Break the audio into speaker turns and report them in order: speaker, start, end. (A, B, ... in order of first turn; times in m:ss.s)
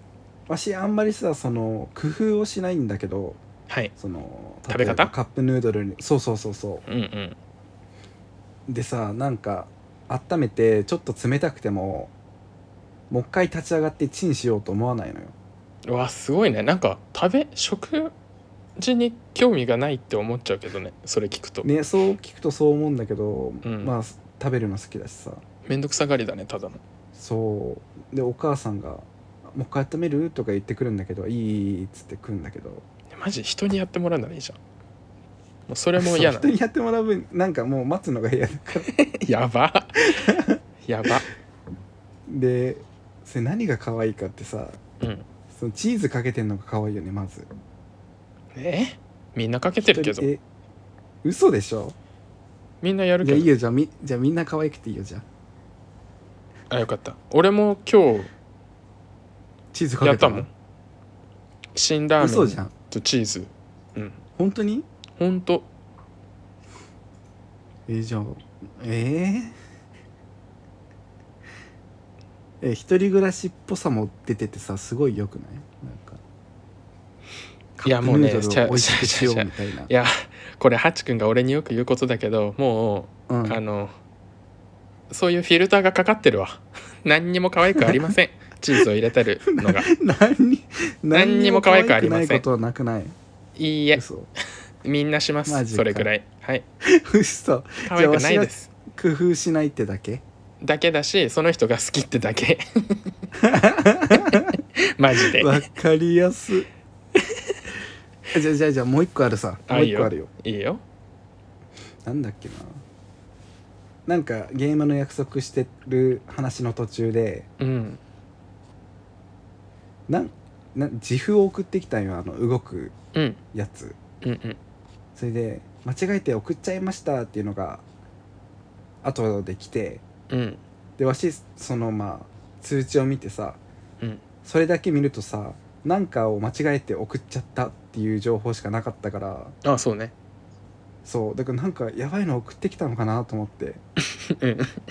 0:00.5-0:03.4 A
0:04.0-0:06.8 A
0:04.7-0:05.1 B
0:06.9-0:07.4 B
0:08.7-0:12.1 A
0:13.1-0:15.3 A
0:15.8-0:18.1 B
0:18.8-0:21.7 B
0:21.6-0:25.4 A
0:23.6-0:23.9 B
0:25.6-0:26.8 B
0:27.1-0:32.8 A
0:33.1-0:34.6 B
0:35.7-0:36.6 B
0:36.0-0:38.9 A
0:38.8-0:40.3 B
0:40.1-0:40.5 A
0:40.8-0:41.3 B
0:42.3-0:44.8 A
0:45.5-0:47.5 A
0:48.5-0:50.3 B
0:49.8-0:50.4 A
0:51.2-0:52.0 A
0:52.8-0:53.5 B
0:53.2-0:55.2 A
0:56.7-0:58.3 B
0:59.7-1:00.5 A
1:00.0-1:00.5 B
1:01.7-1:04.2 B
1:02.2-1:02.7 A
1:04.4-1:04.9 A
1:05.2-1:05.7 B
1:07.9-1:09.5 A
1:12.6-1:16.2 A
1:17.8-1:19.9 A
1:17.8-1:23.9 B
1:23.3-1:23.6 A
1:25.1-1:29.9 B
1:27.8-1:28.1 A
1:29.5-1:33.1 A
1:31.1-1:32.4 B
1:33.6-1:34.0 B
1:33.9-1:34.3 A
1:34.8-1:36.6 B
1:35.4-1:36.1 A
1:36.8-1:40.2 A
1:37.8-1:38.7 B
1:40.6-1:43.1 B
1:43.4-1:44.4 A
1:44.2-1:45.6 B
1:45.2-1:46.7 A
1:47.2-1:47.6 B
1:48.3-1:50.3 A
1:49.7-1:50.8 B
1:52.0-1:52.8 A
1:54.0-1:57.5 A
1:57.6-1:58.0 B
2:00.1-2:02.9 A
2:03.1-2:03.4 B
2:03.5-2:04.0 A
2:04.2-2:04.6 B
2:05.2-2:07.8 A
2:09.0-2:10.0 A
2:10.3-2:10.6 B
2:11.0-2:13.6 A
2:14.4-2:19.5 A
2:19.6-2:20.1 B
2:21.0-2:23.8 A
2:24.2-2:24.7 B